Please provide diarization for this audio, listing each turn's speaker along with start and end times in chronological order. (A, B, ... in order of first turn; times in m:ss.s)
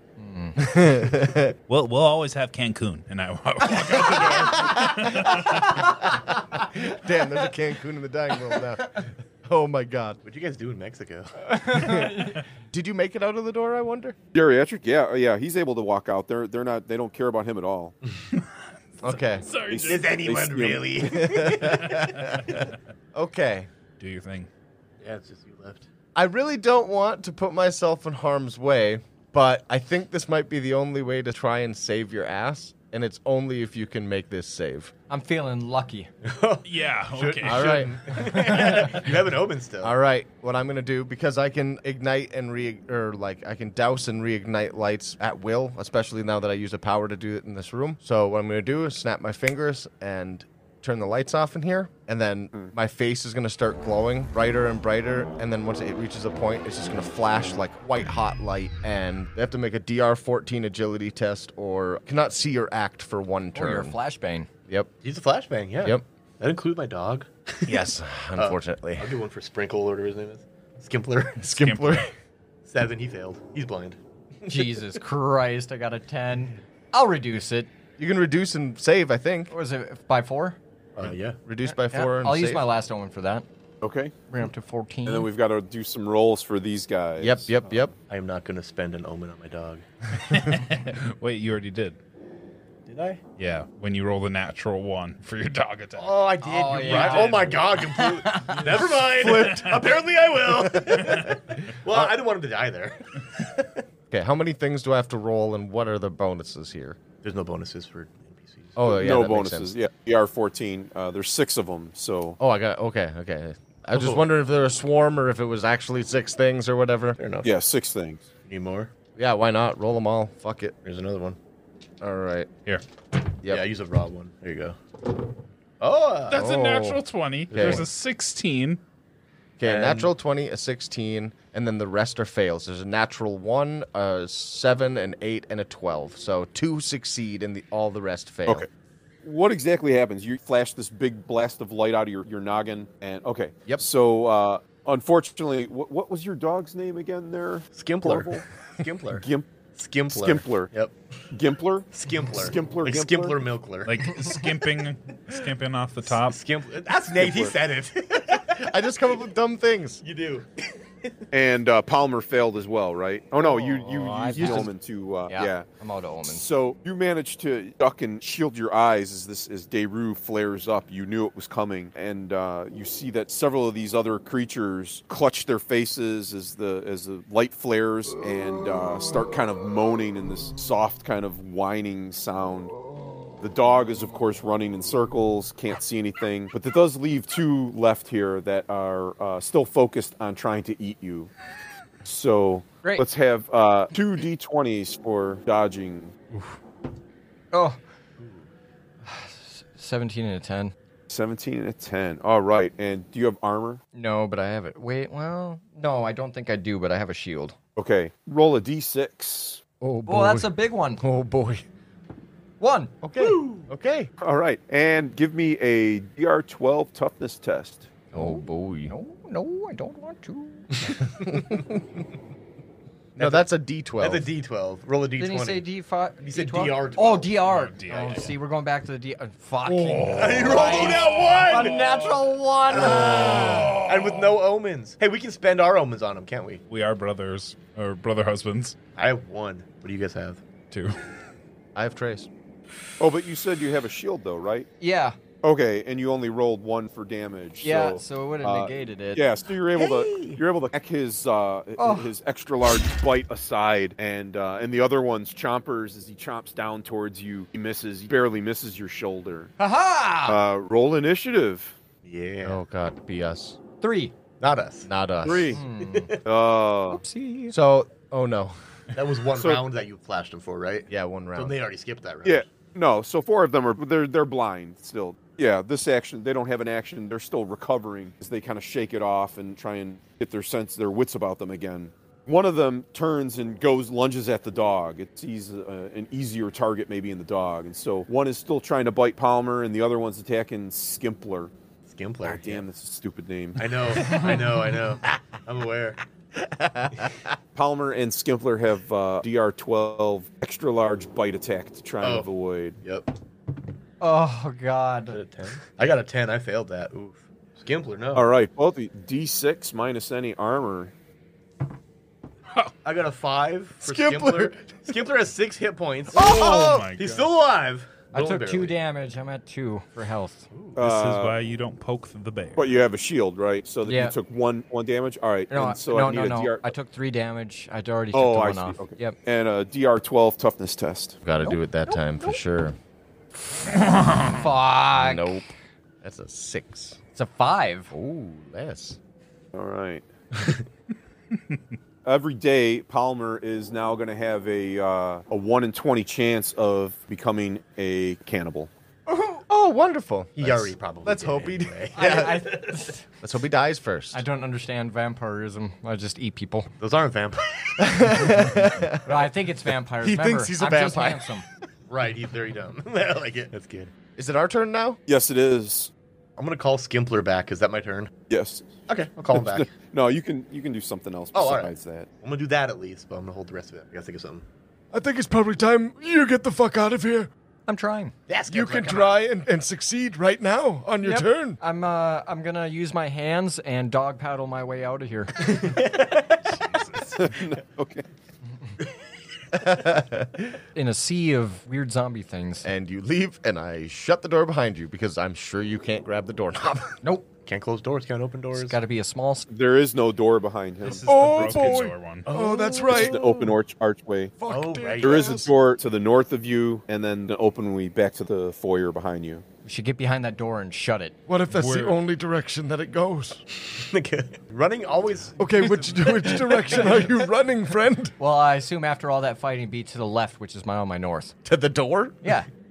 0:00.2-0:00.7 A
0:00.6-0:01.5 B
0:01.7-0:06.0 C
0:03.9-0:04.5 D
0:04.6-0:10.2 B
0:10.2-0:12.1 D
0:11.5-0:12.4 A
0:11.8-0:12.2 B
0:12.7-0:14.2 B
0:14.3-0:17.9 E
0:19.0-0:19.5 B
0:19.0-0:20.2 C
0:19.7-0:21.1 E
0:19.9-0:22.0 D
0:21.0-0:23.7 B
0:21.9-0:22.7 C
0:24.0-0:24.5 C
0:25.0-0:25.9 D
0:26.2-0:34.9 B
0:35.1-0:36.1 A
0:36.2-0:40.0 D
0:36.6-0:38.0 C
0:37.4-0:39.0 B
0:38.4-0:38.8 A
0:39.8-1:04.0 B
1:03.6-1:04.5 A
1:05.0-1:07.8 D
1:07.7-1:09.1 B
1:08.4-1:11.4 D
1:11.4-1:12.1 B
1:11.5-1:12.1 C
1:12.7-1:14.0 D
1:14.5-1:17.7 A
1:18.0-1:19.5 B
1:19.5-1:20.6 A
1:21.0-1:21.4 D
1:21.4-1:22.7 B
1:21.7-1:23.4 A
1:23.8-1:24.1 E
1:24.3-1:25.3 A
1:25.1-1:27.9 E
1:27.2-1:27.9 B
1:28.1-1:29.8 D
1:30.2-1:32.0 C
1:32.9-1:33.2 D
1:33.4-1:36.2 C
1:36.0-1:43.8 D
1:36.4-1:38.8 A
1:36.8-1:37.5 C
1:39.2-1:39.9 C
1:40.8-1:41.2 B
1:41.0-1:41.4 C
1:44.1-1:47.0 B
1:47.2-1:48.8 D
1:48.8-1:49.7 B
1:48.9-1:52.4 E
1:52.4-1:57.2 B
1:53.9-1:54.3 D
1:57.2-1:57.5 D
1:57.4-1:58.3 E
1:58.5-1:58.9 D
1:59.2-2:00.8 B
2:00.8-2:01.4 D
2:02.0-2:02.5 B
2:03.4-2:04.8 D
2:05.8-2:06.4 D
2:06.3-2:08.8 C
2:06.3-2:07.9 B
2:07.5-2:07.9 D
2:09.6-2:18.7 B
2:09.6-2:10.1 D
2:19.2-2:28.4 E
2:27.8-2:29.2 D
2:29.1-2:29.5 E
2:29.8-2:31.0 D
2:30.1-2:30.7 E
2:31.3-2:33.4 E
2:31.9-2:34.4 D
2:33.8-2:36.4 C
2:36.1-2:38.9 D
2:37.2-2:37.6 E
2:38.4-2:40.0 B
2:40.0-2:41.1 D
2:41.3-2:45.7 E
2:43.4-2:44.7 A
2:44.4-2:44.7 B
2:45.3-2:46.4 A
2:46.2-3:02.7 E
3:03.4-3:11.3 E
3:12.0-3:16.2 E
3:17.5-3:17.8 A
3:19.0-3:20.7 A
3:21.1-3:23.8 E
3:24.0-3:27.6 A
3:27.8-3:29.6 E
3:29.8-3:31.6 B
3:30.1-3:31.0 A
3:32.6-3:32.9 A
3:33.0-3:34.1 B
3:33.2-3:33.7 D
3:34.2-3:37.9 E
3:38.1-3:40.7 A
3:38.1-3:38.9 B
3:41.0-3:41.8 B
3:43.2-3:44.3 B
3:43.2-3:43.5 D
3:44.0-3:45.6 D
3:45.2-3:53.8 A
3:46.2-3:47.4 D
3:47.4-3:48.3 C
3:47.9-3:48.3 D
3:49.7-3:51.9 C
3:50.1-3:51.8 D
3:52.7-3:56.6 D
3:53.0-3:54.1 C
3:56.7-3:58.8 C
3:59.0-4:00.4 D
4:01.8-4:02.3 B
4:03.0-4:04.7 E
4:04.8-4:05.2 A
4:05.4-4:19.5 E
4:07.6-4:09.2 A
4:09.7-4:10.4 D
4:11.8-4:12.1 A
4:19.6-4:20.4 A
4:20.3-4:21.7 E
4:22.0-4:22.6 D
4:22.4-4:23.6 B
4:23.8-4:24.1 A
4:24.4-4:24.9 D
4:24.9-4:25.6 B
4:25.2-4:25.6 E
4:25.5-4:26.2 A
4:25.8-4:26.2 D
4:26.2-4:27.0 E
4:26.9-4:27.6 A
4:27.5-4:28.6 B
4:28.9-4:32.5 D
4:29.4-4:29.6 E
4:30.9-4:31.6 B
4:32.2-4:51.5 E
4:51.9-4:52.6 D
4:52.2-4:54.0 E
4:53.6-4:56.0 D
4:56.4-4:57.2 B
4:57.6-5:02.8 E
5:02.0-5:02.3 D
5:02.8-5:03.1 D
5:04.0-5:05.2 A
5:05.1-5:08.3 D
5:08.1-5:10.9 E
5:12.8-5:18.7 D
5:14.1-5:14.4 F
5:16.1-5:17.3 C
5:16.2-5:16.9 B
5:18.1-5:20.5 A
5:20.8-5:22.6 C
5:20.8-5:21.4 E
5:22.6-5:26.8 E
5:23.9-5:24.2 A
5:25.5-5:29.2 A
5:28.1-5:31.2 E
5:31.2-5:32.8 B
5:33.7-5:34.5 C
5:34.3-5:35.3 A
5:34.9-5:35.5 B
5:36.0-5:37.0 B
5:37.2-5:37.9 A
5:37.9-5:39.0 B
5:39.5-5:40.0 E
5:41.3-5:41.6 C
5:42.0-5:48.7 E
5:49.1-5:49.4 A
5:49.5-5:52.7 B
5:50.4-5:52.8 D
5:52.0-5:53.0 A
5:53.2-5:54.2 B
5:54.1-5:56.7 A
5:56.8-5:58.1 D
5:57.8-5:59.3 B
5:59.0-6:01.4 A
6:00.0-6:01.3 B
6:01.9-6:03.9 D
6:04.2-6:05.0 B
6:05.1-6:05.9 E
6:06.4-6:08.1 D
6:08.3-6:08.7 E
6:08.9-6:09.7 D
6:09.3-6:12.1 E
6:11.3-6:14.4 D
6:14.9-6:17.3 F
6:17.7-6:18.1 A
6:18.3-6:19.3 D
6:18.5-6:21.6 F
6:21.0-6:25.7 A
6:25.4-6:26.4 D
6:26.6-6:27.2 C
6:27.1-6:28.1 E
6:29.5-6:30.5 B
6:30.8-6:32.7 A
6:32.6-6:37.0 B
6:37.4-6:38.8 D
6:38.6-6:39.5 A
6:39.5-6:41.8 E
6:40.8-6:42.3 C
6:41.0-6:43.4 F
6:42.3-6:43.2 D
6:42.9-6:44.3 E
6:44.4-6:45.5 F
6:44.5-6:45.3 D
6:45.0-6:49.4 E
6:49.6-6:51.2 A
6:51.3-6:53.4 F
6:51.5-6:52.0 C
6:53.6-6:57.2 D
6:55.4-6:58.1 F
6:58.2-7:01.3 A
7:01.4-7:02.2 B
7:02.2-7:02.5 A